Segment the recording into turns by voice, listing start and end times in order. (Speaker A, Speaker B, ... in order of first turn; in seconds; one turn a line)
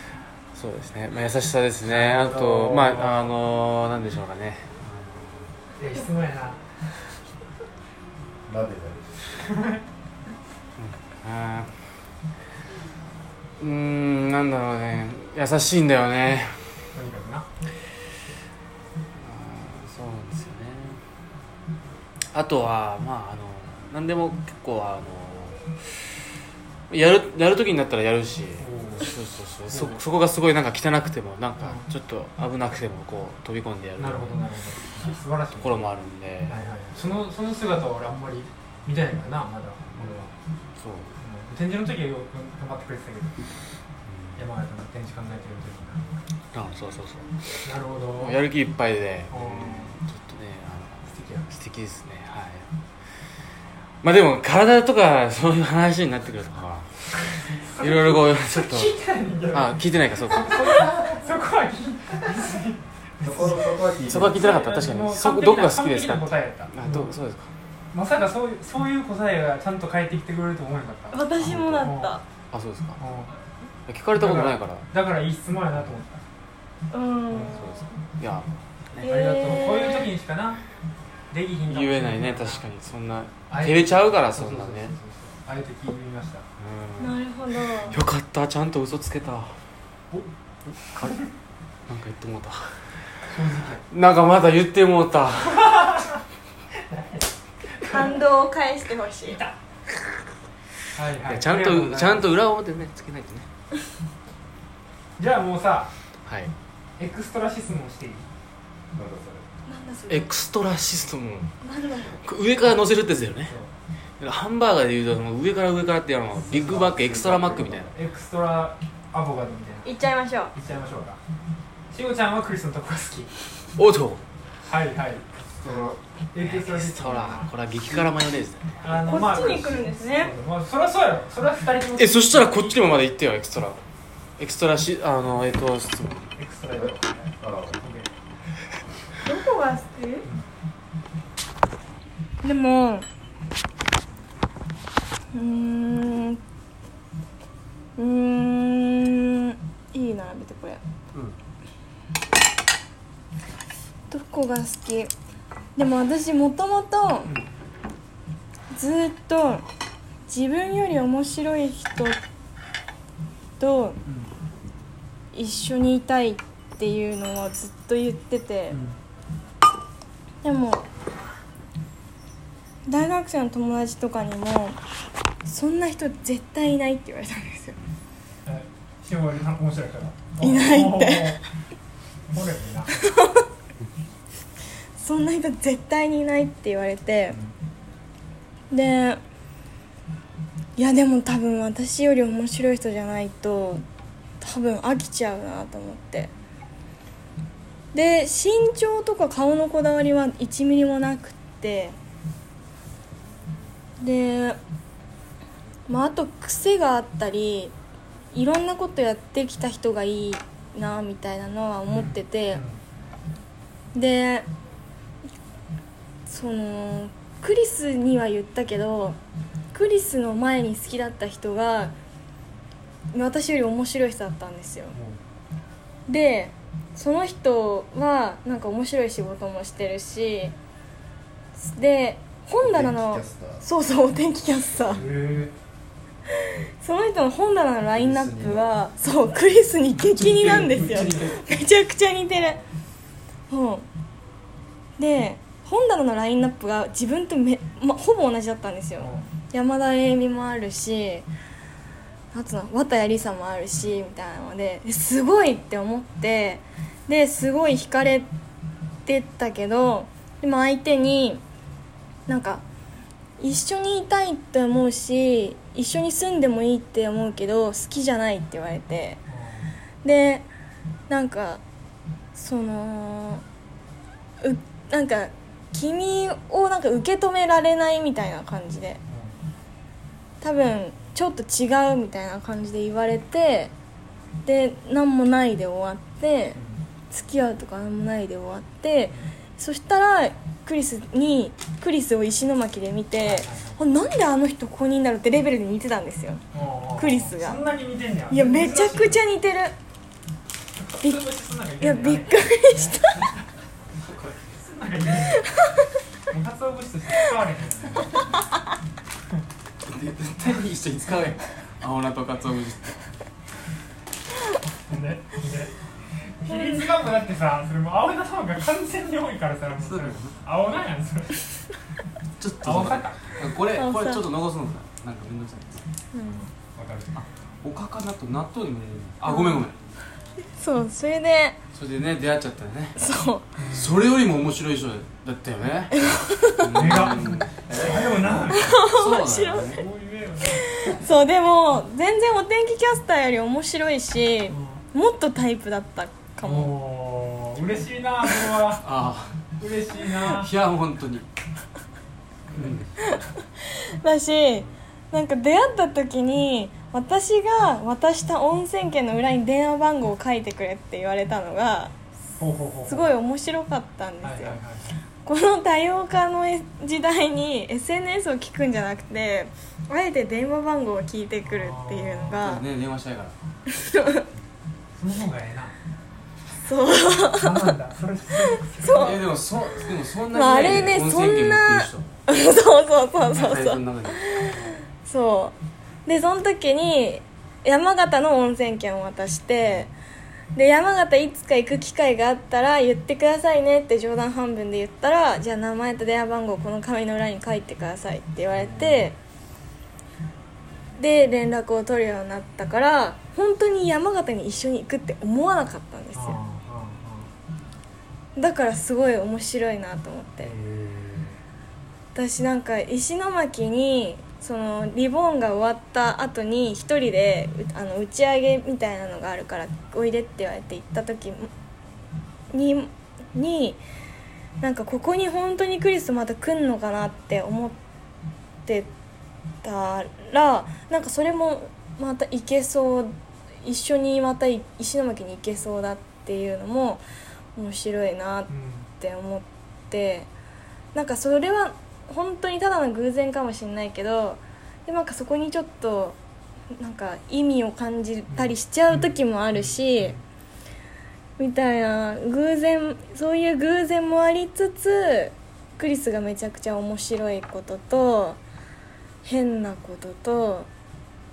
Speaker A: 0.5-5.5
Speaker B: 1.8-3.3
Speaker B: 5.8-6.6
Speaker C: 8.4-9.2
Speaker B: 9.5-9.8
Speaker A: 10.8-11.8
Speaker A: 13.6-16.7
Speaker B: 16.9-17.5
Speaker A: 19.2-21.0
Speaker A: 22.3-26.0
Speaker A: 26.9-34.4
Speaker B: 28.6-29.1
Speaker B: 29.7-30.0
Speaker B: 31.6-31.9
Speaker B: 34.0-35.9
Speaker A: 35.5-36.6
Speaker B: 36.5-40.3
Speaker A: 40.8-41.1
Speaker B: 41.2-43.3
Speaker A: 44.0-44.4
Speaker B: 44.4-46.0
Speaker A: 46.5-52.6
Speaker B: 47.6-48.4
Speaker B: 49.3-49.9
Speaker B: 51.0-51.5
Speaker A: 54.0-56.9
Speaker B: 57.2-67.1
Speaker A: 57.8-58.9
Speaker A: 59.5-60.9
Speaker C: 63.2-64.4
Speaker A: 64.1-67.5
Speaker B: 67.9-72.2
Speaker D: 71.1-72.2
Speaker A: 71.4-71.9
Speaker A: 72.5-73.0
Speaker B: 73.0-73.3
Speaker A: 73.9-74.9
Speaker B: 74.2-76.2
Speaker D: 76.9-77.8
Speaker A: 77.4-78.5
Speaker B: 78.9-80.6
Speaker D: 79.0-80.1
Speaker B: 81.3-82.6
Speaker A: 81.7-84.9
Speaker B: 83.5-86.5
Speaker A: 86.6-87.2
Speaker D: 87.0-88.0
Speaker A: 87.7-89.5
Speaker A: 91.9-92.7
Speaker B: 93.2-93.8
Speaker A: 93.9-96.0
Speaker B: 95.6-96.1
Speaker B: 96.8-98.2
Speaker D: 97.9-99.4
Speaker B: 100.9-102.3
Speaker A: 101.2-103.5
Speaker B: 105.2-105.9
Speaker A: 106.2-106.5
Speaker B: 107.0-108.2
Speaker C: 108.9-109.4
Speaker D: 109.7-110.3
Speaker A: 110.1-111.5
Speaker D: 111.6-112.2
Speaker A: 112.2-113.5
Speaker A: 114.2-117.9
Speaker C: 116.5-117.9
Speaker B: 117.9-119.9
Speaker D: 119.8-120.5
Speaker B: 120.5-121.2
Speaker B: 121.9-123.3
Speaker A: 123.8-124.2
Speaker B: 124.7-125.2
Speaker C: 125.5-126.0
Speaker B: 126.3-128.1
Speaker A: 126.4-128.8
Speaker B: 128.8-132.8
Speaker D: 128.9-130.3
Speaker A: 132.0-133.8
Speaker A: 134.4-136.3
Speaker B: 136.3-138.1
Speaker C: 136.7-137.8
Speaker D: 139.2-140.3
Speaker D: 142.4-143.1
Speaker D: 145.3-146.4
Speaker D: 148.0-150.8
Speaker D: 154.1-155.1
Speaker D: 155.8-157.3
Speaker D: 158.7-159.6
Speaker D: 160.3-162.2
Speaker D: 163.6-164.0
Speaker B: 164.0-164.3
Speaker D: 165.3-168.8
Speaker B: 168.7-169.0
Speaker D: 170.4-170.8
Speaker D: 172.8-174.8
Speaker D: 175.4-177.8
Speaker B: 178.4-181.4
Speaker D: 180.4-181.4
Speaker B: 182.3-183.0
Speaker D: 182.9-183.4
Speaker D: 185.0-187.4
Speaker D: 188.7-189.2
Speaker D: 190.8-193.8
Speaker D: 194.4-196.3
Speaker D: 197.9-201.9
Speaker D: 204.0-204.6
Speaker D: 205.9-207.7
Speaker D: 208.3-212.6
Speaker B: 211.9-212.8
Speaker D: 213.9-214.5
Speaker D: 216.3-219.2
Speaker D: 219.7-221.9
Speaker D: 223.1-224.9
Speaker B: 224.9-225.2
Speaker D: 226.1-230.5
Speaker D: 231.6-235.0
Speaker C: 232.6-233.6
Speaker B: 234.9-235.5
Speaker D: 236.3-242.6
Speaker C: 238.0-238.6
Speaker B: 240.1-241.4
Speaker D: 243.5-243.8
Speaker D: 245.0-251.3
Speaker B: 249.0-249.3
Speaker D: 252.3-258.3
Speaker D: 259.1-261.4
Speaker D: 262.3-262.6
Speaker D: 263.4-269.2
Speaker B: 269.3-269.7
Speaker D: 270.0-270.4
Speaker D: 271.1-271.6
Speaker D: 272.3-273.4
Speaker D: 274.4-279.0
Speaker B: 279.1-279.3
Speaker D: 280.4-283.7
Speaker D: 284.4-286.6
Speaker B: 286.6-286.8
Speaker D: 287.1-296.4
Speaker B: 293.2-293.8
Speaker B: 296.5-299.2
Speaker D: 296.9-297.6
Speaker D: 298.3-299.7
Speaker B: 300.8-302.4
Speaker D: 301.8-303.3
Speaker B: 304.5-305.5
Speaker B: 306.3-308.2
Speaker A: 309.9-312.9
Speaker B: 314.9-315.7
Speaker B: 316.4-321.7
Speaker A: 319.8-320.3
Speaker A: 322.4-325.8
Speaker B: 322.6-323.4
Speaker D: 323.7-324.2
Speaker D: 326.1-326.4
Speaker B: 326.3-327.2
Speaker A: 327.2-329.8
Speaker D: 329.2-329.7
Speaker D: 330.5-331.6
Speaker A: 331.7-332.9
Speaker D: 332.9-333.4
Speaker B: 333.6-334.0
Speaker A: 333.7-339.8
Speaker D: 336.0-336.6
Speaker B: 336.7-338.8
Speaker D: 338.5-339.8
Speaker B: 339.7-341.0
Speaker D: 340.6-346.7
Speaker B: 344.5-344.8
Speaker B: 346.4-348.8
Speaker A: 348.8-349.4
Speaker B: 349.6-350.5
Speaker A: 350.3-351.3
Speaker A: 352.5-352.9
Speaker D: 353.0-361.9
Speaker B: 362.4-363.1
Speaker D: 362.9-364.6
Speaker B: 364.2-364.9
Speaker D: 365.2-372.6
Speaker B: 371.4-372.4
Speaker A: 372.4-373.4
Speaker D: 373.7-374.2
Speaker B: 374.9-375.7
Speaker D: 376.6-377.7
Speaker B: 377.3-379.1
Speaker D: 378.7-379.3
Speaker A: 378.9-382.1
Speaker D: 380.3-385.5
Speaker A: 383.3-384.7
Speaker D: 386.1-389.9
Speaker D: 390.5-399.1
Speaker B: 398.5-399.1
Speaker D: 401.0-406.4
Speaker B: 406.1-407.3
Speaker D: 408.4-410.5
Speaker B: 410.4-411.4
Speaker D: 412.1-421.5
Speaker D: 422.5-423.8
Speaker D: 424.6-427.8
Speaker D: 429.6-437.0
Speaker D: 437.6-440.3
Speaker B: 438.5-438.9
Speaker D: 440.9-446.2
Speaker D: 446.7-450.2
Speaker B: 448.3-450.2
Speaker D: 451.4-458.4
Speaker D: 459.2-460.7